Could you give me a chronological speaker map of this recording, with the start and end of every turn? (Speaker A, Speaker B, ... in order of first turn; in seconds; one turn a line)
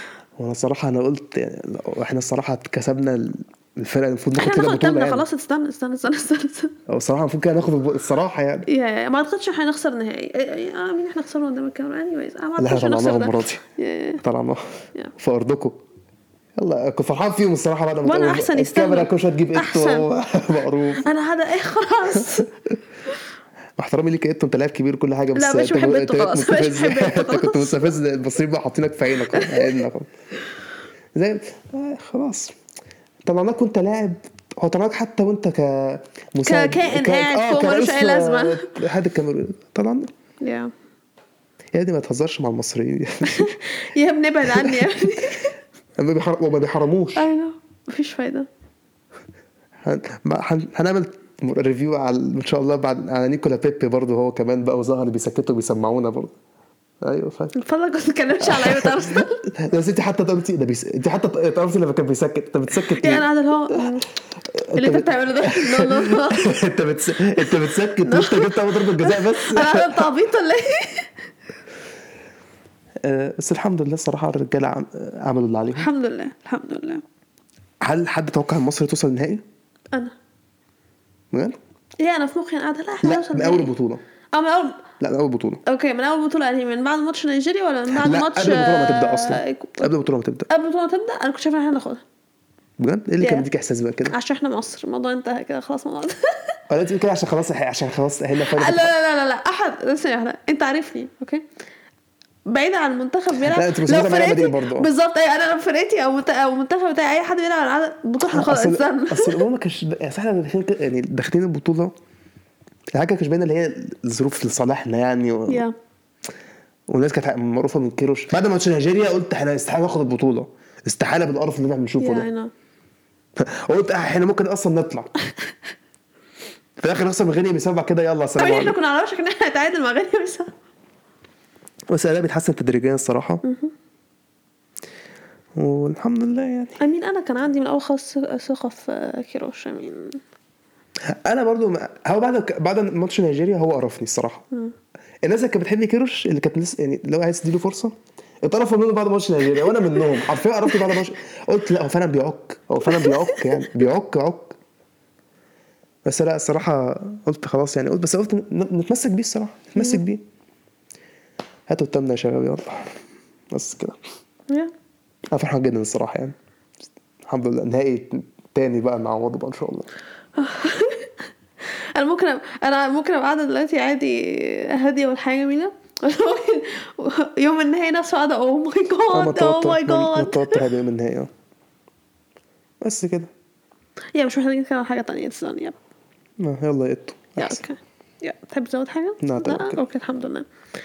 Speaker A: 0.4-5.2
Speaker B: 4.4-6.7
Speaker A: 6.9-8.7
Speaker B: 8.7-14.2
Speaker A: 12.6-13.6
Speaker A: 14.2-14.6
Speaker A: 15.2-15.8
Speaker A: 16.6-21.1
Speaker B: 18.0-20.0
Speaker B: 21.0-22.5
Speaker A: 22.1-22.7
Speaker A: 23.8-30.1
Speaker B: 25.3-27.9
Speaker B: 29.3-29.8
Speaker A: 31.1-32.5
Speaker A: 33.2-40.1
Speaker B: 36.4-38.7
Speaker B: 40.4-40.7
Speaker A: 41.7-43.6
Speaker B: 43.2-45.5
Speaker A: 44.5-45.2
Speaker A: 46.0-47.3
Speaker B: 47.1-48.5
Speaker A: 49.8-56.3
Speaker A: 57.0-57.5
Speaker B: 57.5-59.4
Speaker A: 58.4-63.9
Speaker B: 62.9-64.1
Speaker A: 64.5-70.1
Speaker B: 64.7-66.5
Speaker B: 67.4-71.1
Speaker A: 73.0-75.9
Speaker B: 75.8-77.0
Speaker A: 77.8-79.4
Speaker A: 81.3-81.6
Speaker B: 82.0-83.7
Speaker A: 83.0-84.0
Speaker B: 84.3-84.9
Speaker A: 85.0-85.6
Speaker B: 85.7-89.9
Speaker A: 87.9-90.5
Speaker B: 90.5-92.0
Speaker A: 92.8-94.1
Speaker B: 93.2-93.5
Speaker B: 94.0-96.5
Speaker A: 96.7-98.9
Speaker B: 98.4-101.4
Speaker B: 102.5-109.4
Speaker A: 103.4-104.9
Speaker A: 108.2-111.9
Speaker A: 112.9-115.7
Speaker B: 115.5-115.7
Speaker A: 116.9-122.3
Speaker B: 122.0-122.5
Speaker A: 123.4-125.1
Speaker A: 126.8-128.8
Speaker B: 128.4-130.5
Speaker A: 131.9-133.4
Speaker B: 133.4-133.7
Speaker A: 135.6-136.8
Speaker B: 136.8-140.2
Speaker A: 141.1-144.4
Speaker A: 145.2-154.6
Speaker B: 152.9-153.6
Speaker A: 156.0-160.2
Speaker A: 161.7-163.0
Speaker A: 163.5-164.0
Speaker A: 165.3-166.3
Speaker A: 167.2-169.9
Speaker B: 170.3-171.1
Speaker B: 171.7-180.6
Speaker A: 179.1-181.3
Speaker A: 182.8-183.3
Speaker B: 184.1-185.8
Speaker A: 186.4-187.6
Speaker B: 187.4-190.5
Speaker A: 189.2-189.8